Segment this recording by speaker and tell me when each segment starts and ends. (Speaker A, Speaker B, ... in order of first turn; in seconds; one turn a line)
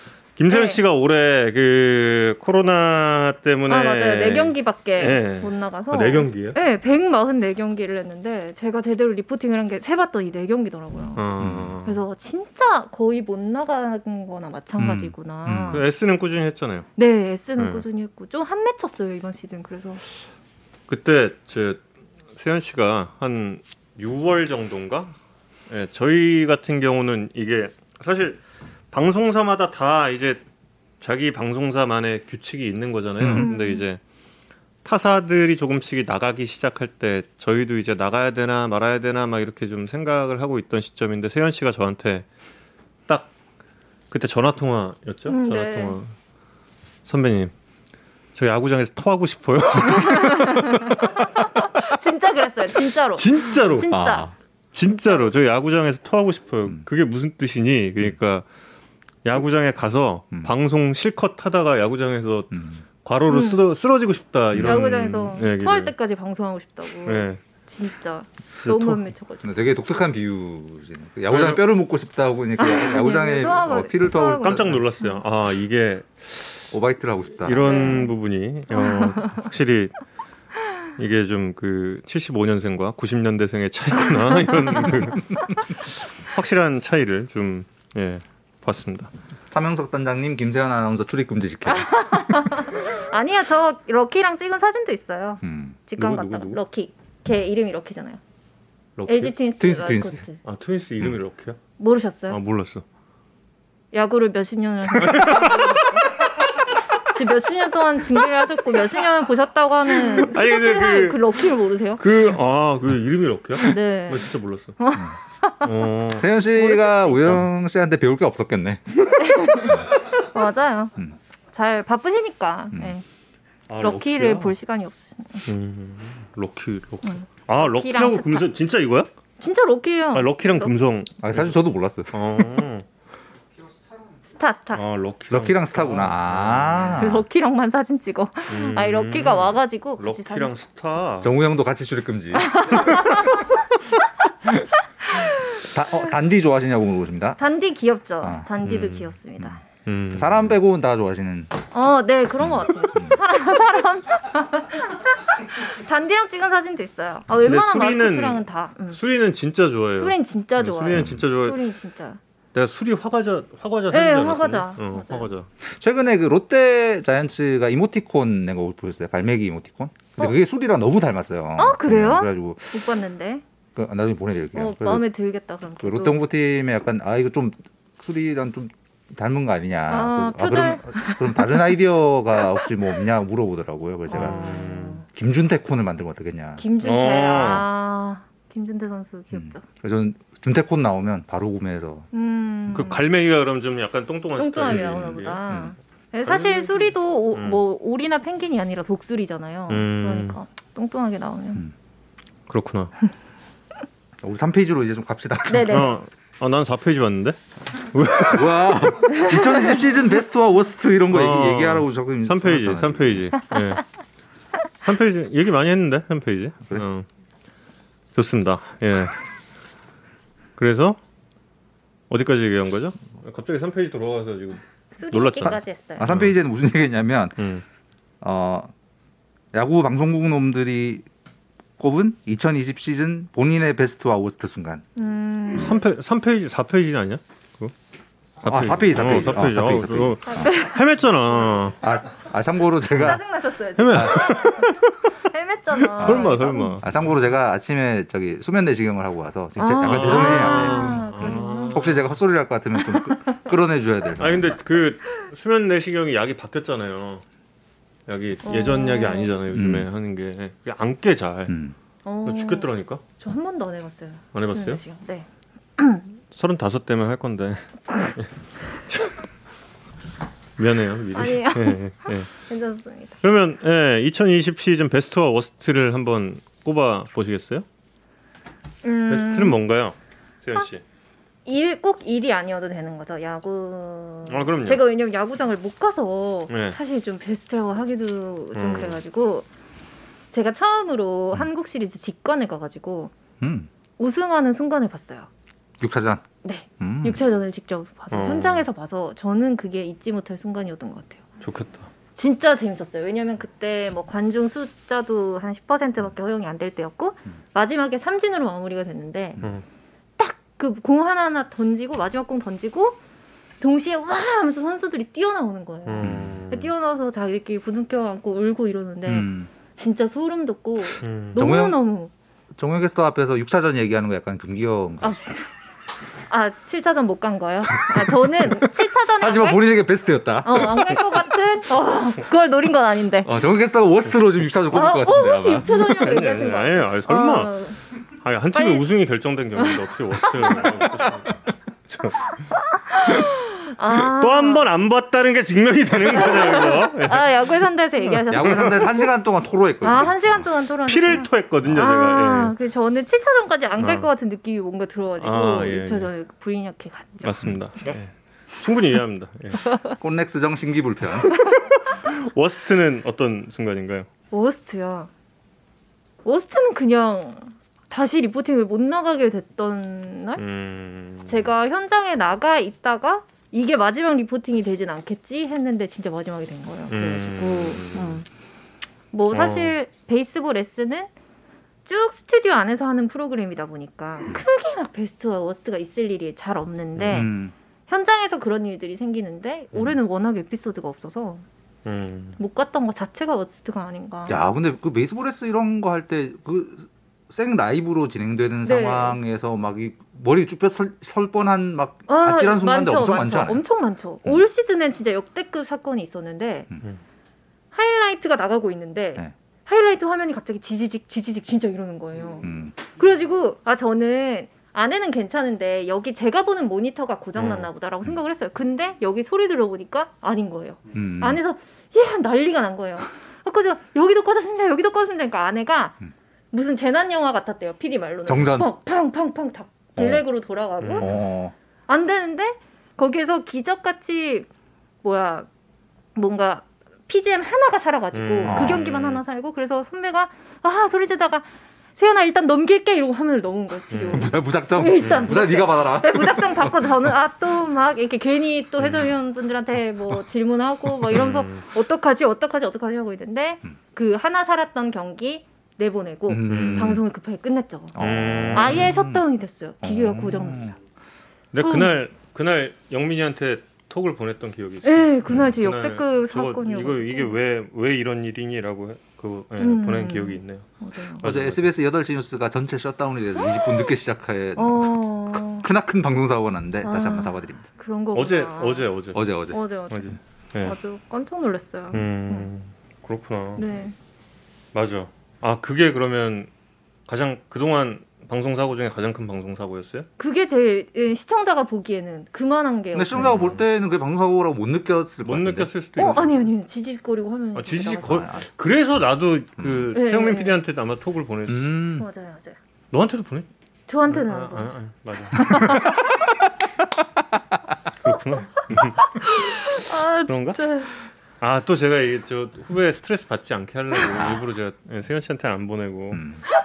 Speaker A: 0.4-6.6
Speaker B: 0.5-0.8
Speaker B: 3.7-15.8
Speaker A: 11.2-12.0
Speaker C: 11.4-11.8
Speaker C: 14.8-15.8
Speaker A: 15.7-16.9
Speaker B: 17.0-20.0
Speaker A: 17.6-17.8
Speaker A: 20.9-21.8
Speaker A: 22.4-25.1
Speaker A: 25.7-28.4
Speaker A: 28.9-30.4
Speaker A: 31.0-34.0
Speaker C: 33.2-33.5
Speaker B: 33.4-33.8
Speaker A: 34.8-42.2
Speaker A: 43.1-43.3
Speaker A: 44.1-46.1
Speaker B: 45.3-46.0
Speaker A: 47.0-47.5
Speaker A: 48.3-51.1
Speaker B: 50.0-54.3
Speaker A: 53.1-53.9
Speaker C: 53.9-54.3
Speaker A: 54.7-58.4
Speaker A: 59.2-65.9
Speaker C: 62.5-62.8
Speaker B: 63.3-63.6
Speaker C: 64.5-64.8
Speaker B: 64.6-69.4
Speaker A: 67.0-67.4
Speaker A: 68.6-69.0
Speaker C: 69.4-74.8
Speaker A: 71.3-71.7
Speaker B: 72.6-75.2
Speaker A: 74.2-76.7
Speaker C: 76.7-77.9
Speaker A: 77.4-79.9
Speaker B: 77.6-78.1
Speaker B: 78.7-79.4
Speaker A: 81.0-89.1
Speaker C: 89.5-91.9
Speaker B: 91.7-98.2
Speaker C: 95.4-95.8
Speaker A: 96.0-96.6
Speaker A: 99.0-99.3
Speaker B: 99.0-100.4
Speaker C: 99.6-100.2
Speaker A: 100.4-101.6
Speaker B: 101.8-102.4
Speaker A: 102.3-102.8
Speaker B: 103.9-106.2
Speaker A: 105.0-105.9
Speaker B: 107.1-112.0
Speaker A: 110.2-111.3
Speaker A: 112.0-114.8
Speaker B: 113.6-114.3
Speaker B: 114.8-115.7
Speaker A: 115.6-116.3
Speaker C: 116.2-119.9
Speaker B: 116.5-117.4
Speaker B: 119.2-120.9
Speaker B: 121.5-123.0
Speaker A: 123.7-124.5
Speaker B: 123.8-125.4
Speaker A: 125.5-129.1
Speaker B: 127.0-128.5
Speaker B: 129.4-130.7
Speaker A: 130.1-131.5
Speaker C: 131.2-132.1
Speaker A: 132.1-132.8
Speaker B: 134.3-134.8
Speaker A: 134.7-137.0
Speaker C: 135.3-137.2
Speaker B: 136.9-140.5
Speaker A: 138.5-141.3
Speaker C: 141.2-143.0
Speaker B: 142.4-143.4
Speaker C: 145.6-147.4
Speaker B: 147.4-149.6
Speaker C: 148.2-148.5
Speaker A: 148.6-149.1
Speaker A: 149.8-150.6
Speaker C: 150.1-151.5
Speaker B: 151.7-159.0
Speaker C: 152.4-153.2
Speaker A: 157.4-161.6
Speaker B: 159.9-162.2
Speaker C: 160.9-161.2
Speaker A: 162.5-165.5
Speaker B: 163.9-165.3
Speaker C: 165.7-172.8
Speaker B: 171.6-173.4
Speaker C: 173.7-175.0
Speaker B: 174.5-176.2
Speaker C: 175.8-184.5
Speaker B: 179.9-181.8
Speaker B: 182.4-182.7
Speaker B: 184.1-185.0
Speaker A: 184.1-185.0
Speaker C: 185.1-186.6
Speaker B: 186.6-189.6
Speaker A: 186.8-187.7
Speaker C: 189.3-192.1
Speaker B: 192.1-193.0
Speaker A: 192.7-195.4
Speaker B: 194.4-201.6
Speaker C: 194.7-195.0
Speaker C: 195.5-195.7
Speaker A: 196.2-197.6
Speaker A: 199.7-200.4
Speaker A: 202.5-202.9
Speaker C: 204.2-205.9
Speaker B: 205.5-205.9
Speaker A: 205.7-209.0
Speaker C: 208.2-213.3
Speaker B: 209.1-209.6
Speaker A: 211.1-213.8
Speaker A: 214.8-217.1
Speaker A: 218.1-219.2
Speaker A: 220.6-221.0
Speaker A: 222.1-226.3
Speaker B: 224.9-226.1
Speaker C: 225.4-227.4
Speaker A: 227.4-227.6
Speaker C: 228.2-228.7
Speaker C: 229.5-231.1
Speaker C: 231.8-234.8
Speaker B: 234.9-235.8
Speaker A: 235.6-237.7
Speaker C: 238.4-240.5
Speaker A: 238.4-241.8
Speaker B: 240.3-240.7
Speaker C: 241.8-243.2
Speaker B: 242.9-246.8
Speaker A: 243.8-244.9
Speaker C: 243.9-244.3
Speaker A: 245.8-246.8
Speaker C: 246.0-254.5
Speaker B: 249.6-251.8
Speaker A: 249.8-252.1
Speaker B: 252.8-253.4
Speaker A: 254.2-257.2
Speaker A: 258.1-261.5
Speaker B: 258.4-259.3
Speaker C: 259.5-259.9
Speaker C: 261.5-261.7
Speaker B: 262.0-265.2
Speaker A: 262.2-263.0
Speaker A: 264.3-264.8
Speaker B: 265.8-266.0
Speaker A: 266.3-268.3
Speaker A: 270.6-272.3
Speaker B: 271.1-273.2
Speaker A: 273.2-277.6
Speaker B: 278.8-279.6
Speaker A: 279.1-280.8
Speaker B: 281.4-289.4
Speaker A: 284.3-284.8
Speaker A: 286.5-286.8
Speaker A: 288.5-289.0
Speaker B: 290.3-293.1
Speaker C: 293.4-293.7
Speaker B: 294.0-295.3
Speaker C: 295.8-296.2
Speaker B: 296.4-301.2
Speaker C: 296.8-297.2
Speaker A: 298.1-298.6
Speaker A: 301.4-301.9
Speaker B: 302.1-309.4
Speaker B: 310.2-313.0
Speaker B: 313.6-322.1
Speaker A: 315.9-316.7
Speaker C: 316.0-316.4
Speaker C: 319.1-319.5
Speaker A: 321.0-321.4
Speaker C: 321.3-321.8
Speaker C: 322.6-325.2
Speaker B: 326.3-329.7
Speaker C: 329.1-331.1
Speaker B: 330.4-333.3
Speaker C: 333.2-335.6
Speaker B: 334.7-337.8
Speaker A: 335.6-337.5
Speaker A: 338.2-342.3
Speaker B: 338.5-338.9
Speaker B: 340.3-340.8
Speaker B: 342.6-344.6
Speaker A: 344.0-347.3
Speaker B: 346.1-349.0
Speaker A: 348.0-348.8
Speaker C: 348.3-350.4
Speaker B: 349.8-357.3
Speaker A: 350.9-352.5
Speaker A: 353.8-354.1
Speaker A: 355.2-356.1
Speaker A: 357.2-359.6
Speaker C: 360.0-361.4
Speaker A: 362.0-364.1
Speaker B: 364.3-365.1
Speaker B: 366.2-370.4
Speaker A: 370.4-371.5
Speaker B: 371.3-378.2
Speaker A: 376.9-378.2
Speaker B: 379.1-381.1
Speaker A: 379.3-379.7
Speaker B: 381.8-387.3
Speaker A: 387.0-387.2
Speaker C: 387.1-387.5
Speaker B: 387.9-391.4
Speaker A: 391.8-392.4
Speaker B: 392.4-394.4
Speaker C: 394.3-403.6
Speaker B: 398.6-399.2
Speaker B: 402.1-406.7
Speaker B: 407.7-426.0
Speaker C: 412.4-412.8
Speaker A: 417.4-417.7
Speaker C: 420.9-421.4
Speaker B: 426.5-431.1
Speaker C: 428.2-428.7
Speaker C: 430.0-430.2
Speaker A: 430.8-431.1
Speaker C: 431.0-431.5
Speaker B: 431.9-434.5
Speaker B: 435.0-435.5
Speaker B: 436.1-458.0
Speaker A: 438.1-439.2
Speaker C: 438.4-438.8
Speaker A: 443.9-444.3
Speaker C: 444.1-446.7
Speaker A: 445.0-445.3
Speaker A: 451.1-451.6
Speaker C: 456.3-457.0
Speaker A: 456.5-457.0
Speaker C: 457.9-459.2
Speaker A: 458.0-458.9
Speaker B: 458.5-460.7
Speaker C: 459.8-460.8
Speaker A: 461.5-471.7
Speaker B: 461.6-462.0
Speaker B: 464.8-467.3
Speaker B: 469.6-471.2
Speaker C: 471.2-477.6
Speaker B: 474.6-475.7
Speaker B: 476.8-478.9
Speaker A: 478.1-479.2
Speaker C: 479.1-479.6
Speaker B: 479.5-482.5
Speaker A: 479.9-480.7
Speaker A: 481.9-483.6
Speaker B: 483.6-483.9
Speaker A: 484.7-486.5
Speaker A: 487.1-490.1
Speaker B: 490.2-493.5
Speaker C: 492.9-496.1
Speaker A: 493.2-493.6
Speaker A: 495.2-496.4
Speaker B: 496.0-498.3
Speaker A: 497.5-501.7
Speaker C: 498.0-498.4
Speaker C: 499.6-499.9
Speaker B: 499.9-500.6
Speaker C: 501.5-502.1
Speaker B: 502.0-502.6
Speaker A: 502.9-503.5
Speaker B: 503.9-504.7
Speaker A: 504.1-505.9
Speaker B: 505.4-505.9
Speaker A: 508.0-509.2
Speaker B: 509.2-511.0
Speaker A: 510.3-510.6
Speaker A: 511.4-516.2
Speaker C: 516.1-516.4